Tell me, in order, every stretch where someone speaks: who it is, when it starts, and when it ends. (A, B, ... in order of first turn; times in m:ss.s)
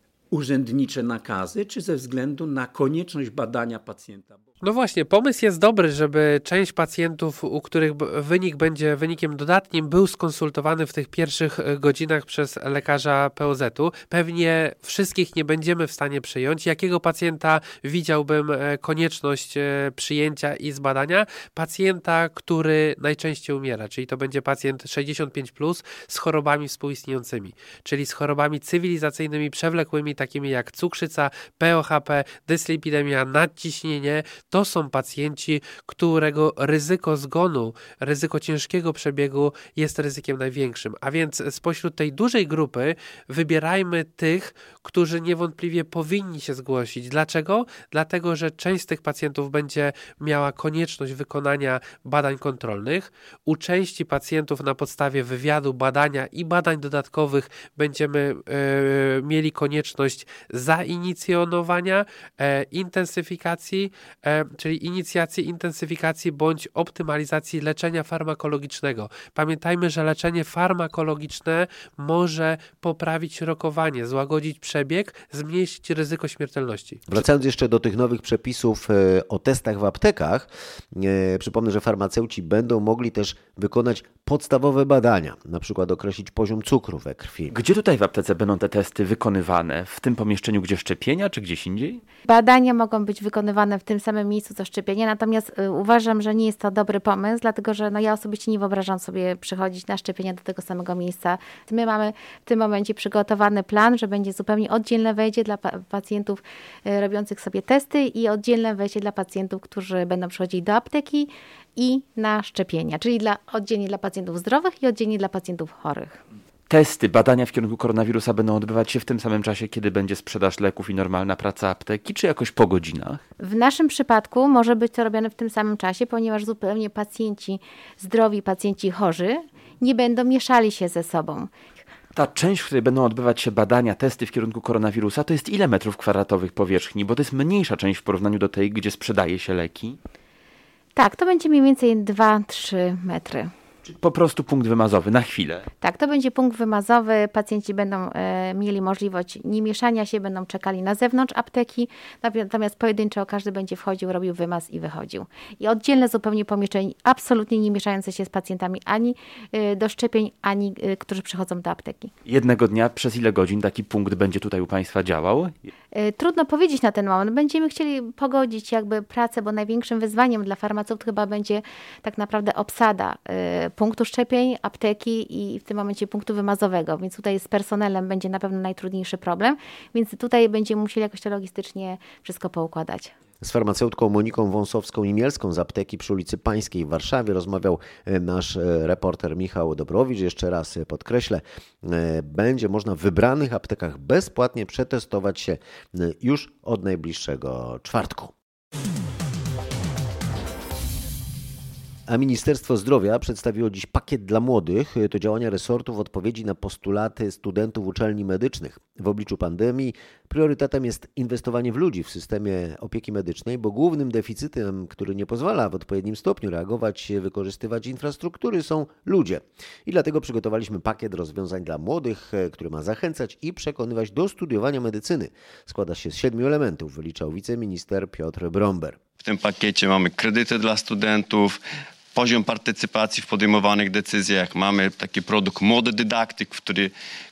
0:00.3-0:04.4 A
0:04.6-1:17.0 B
1:17.1-1:27.6 C
1:27.5-1:32.0 D
1:32.3-1:56.2 E
1:56.7-2:03.2 D
2:03.4-2:11.5 E
2:12.2-2:20.0 D
2:21.0-2:23.5 E
2:23.8-2:25.7 D
2:25.8-2:42.1 E
2:42.3-2:45.7 D
2:45.9-3:03.1 E
3:03.4-3:18.3 C
3:22.1-3:49.0 C
3:49.2-3:51.6 F
3:52.1-3:56.9 F